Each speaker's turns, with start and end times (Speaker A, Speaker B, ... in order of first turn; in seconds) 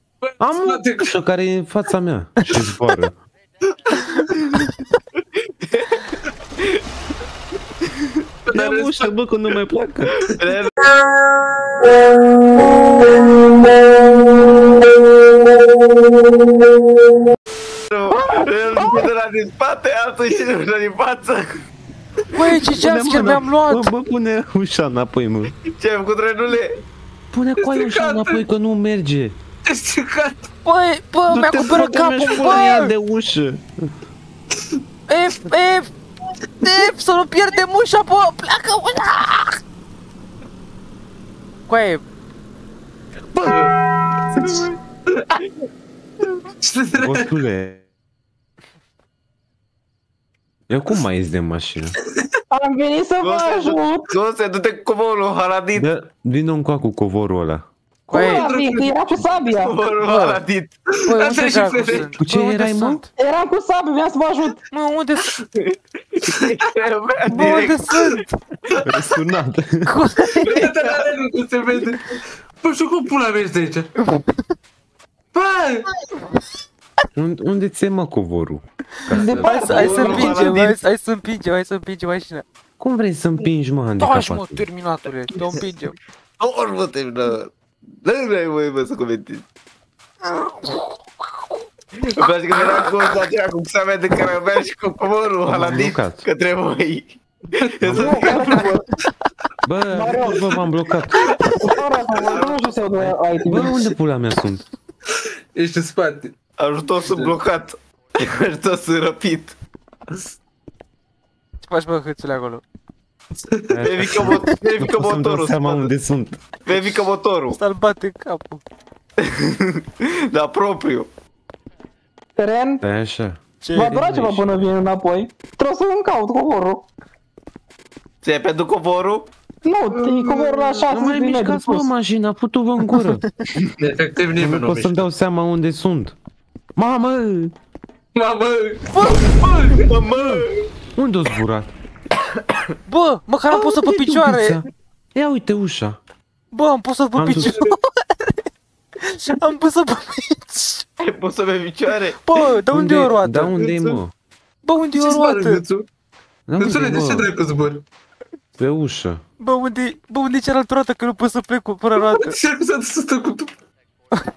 Speaker A: 0.2-1.1, 8.5-9.1, 27.6-28.4, 29.6-30.5, 43.5-43.7, 46.6-47.3, 58.1-59.0, 61.1-62.1, 70.4-73.9, 75.3-75.9, 79.8-80.3, 97.5-98.0, 105.5-106.3, 107.0-107.4, 129.9-130.8, 133.8-135.1, 138.2-139.9, 147.4-147.7, 153.6-154.0, 154.9-155.9, 156.6-157.8, 162.0-163.5
Speaker B: 0.4-3.2, 8.5-10.3, 22.8-25.5, 27.3-29.4, 31.3-33.6, 43.3-43.6, 44.3-44.7, 47.0-47.8, 50.7-52.0, 55.8-57.6, 62.1-63.0, 68.9-69.9, 77.2-80.1, 82.8-84.6, 95.5-96.2, 97.8-98.4, 99.6-101.3, 103.0-104.6, 113.7-116.4, 122.8-124.7, 130.9-133.2, 134.3-136.2, 136.8-137.5, 140.2-140.4, 141.0-141.7, 143.5-146.0, 147.2-147.6, 152.7-154.1, 156.5-157.3, 158.6-159.2
Speaker C: 3.9-4.7, 22.3-23.9, 30.6-32.9, 35.1-35.9, 36.6-39.6, 41.7-42.0, 58.1-58.5, 60.0-60.4, 61.0-63.1, 64.7-65.3, 67.3-68.3, 69.9-70.7, 79.4-82.4, 84.0-85.9, 90.3-90.9, 111.6-112.6, 117.5-118.6, 123.6-124.0, 138.9-139.3, 142.9-144.6, 146.5-148.3, 149.0-150.8, 152.2-153.6, 154.7-155.6, 159.4-162.4
Speaker D: 5.7-6.0, 10.3-10.7, 17.9-21.6, 25.7-26.7, 44.4-44.7, 53.2-55.9, 59.6-60.7, 65.6-68.2, 79.4-80.8, 86.4-89.4, 92.0-97.2, 97.7-98.7, 102.2-102.6, 106.6-109.5, 113.8-115.9, 116.7-117.6, 119.2-121.1, 128.2-129.3, 139.7-140.7, 151.0-152.2
Speaker E: 18.1-19.1, 52.5-54.1, 58.1-59.8, 63.2-64.6, 79.1-80.4, 98.0-98.8, 99.9-100.4, 101.6-103.9, 122.4-122.8, 123.7-126.9, 129.6-131.9